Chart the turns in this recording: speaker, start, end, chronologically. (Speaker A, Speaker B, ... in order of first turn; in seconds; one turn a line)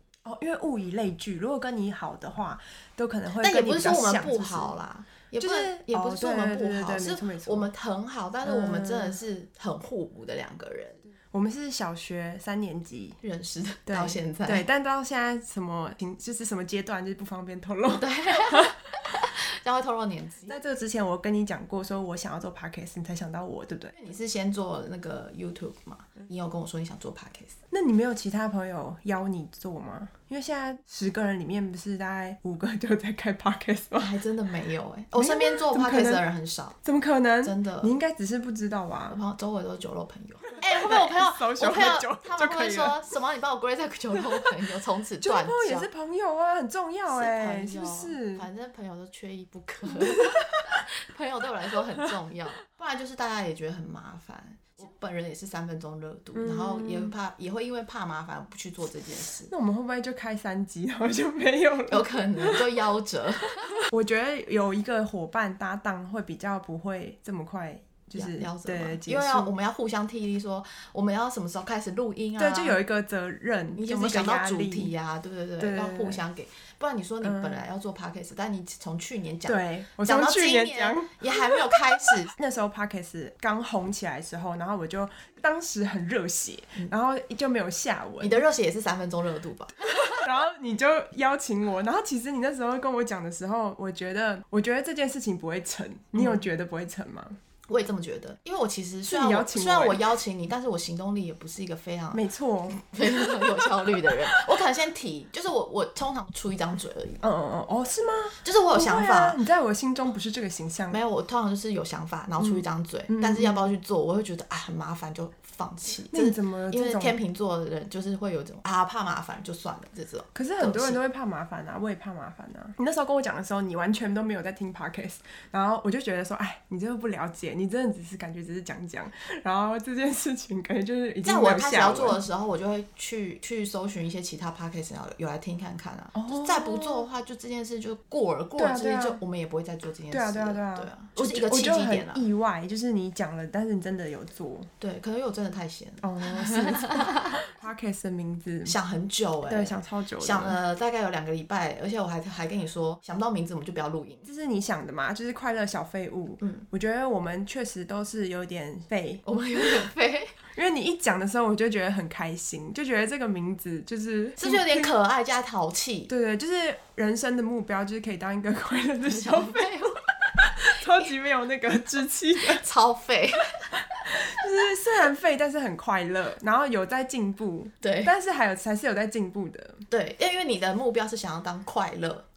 Speaker A: 0.2-4.7
Speaker B: 3.4-11.1
Speaker A: 5.4-7.7
Speaker A: 8.4-9.2
Speaker A: 11.3-13.2
Speaker B: 13.2-14.7
Speaker A: 13.9-18.8
Speaker B: 17.9-20.6
Speaker A: 20.5-23.9
Speaker B: 23.9-27.6
Speaker A: 27.7-34.1
Speaker B: 34.0-36.8
Speaker A: 35.1-36.2
Speaker A: 36.8-39.2
Speaker B: 37.4-38.0
Speaker B: 39.1-45.9
Speaker A: 40.6-43.0
Speaker A: 45.2-48.5
Speaker B: 47.1-59.5
Speaker A: 49.9-50.8
Speaker A: 56.3-57.1
Speaker A: 59.5-62.7
Speaker B: 61.9-63.8
Speaker A: 63.6-69.5
Speaker B: 68.1-72.8
Speaker A: 72.4-74.9
Speaker B: 73.7-82.3
Speaker A: 75.6-76.2
Speaker A: 77.2-77.6
Speaker A: 79.5-88.4
Speaker B: 88.2-90.2
Speaker A: 89.8-97.4
Speaker B: 96.1-96.4
Speaker B: 97.7-107.3
Speaker A: 99.1-100.0
Speaker A: 102.1-104.4
Speaker A: 107.2-111.0
Speaker B: 108.4-109.4
Speaker B: 110.9-121.0
Speaker A: 112.4-113.7
Speaker A: 116.1-117.2
Speaker A: 120.3-132.2
Speaker B: 131.2-142.2
Speaker A: 136.1-137.1
Speaker A: 138.6-139.2
Speaker A: 140.1-144.7
Speaker B: 144.8-147.3
Speaker A: 146.0-148.8
Speaker B: 148.6-154.2
Speaker A: 149.5-150.6
Speaker A: 154.2-159.8
Speaker B: 159.2-160.4
Speaker A: 160.5-164.9
Speaker B: 164.4-166.1
Speaker A: 166.1-172.6
Speaker B: 169.0-170.0
Speaker B: 172.4-173.8
Speaker A: 174.0-179.8
Speaker B: 177.8-178.1
Speaker B: 179.9-182.2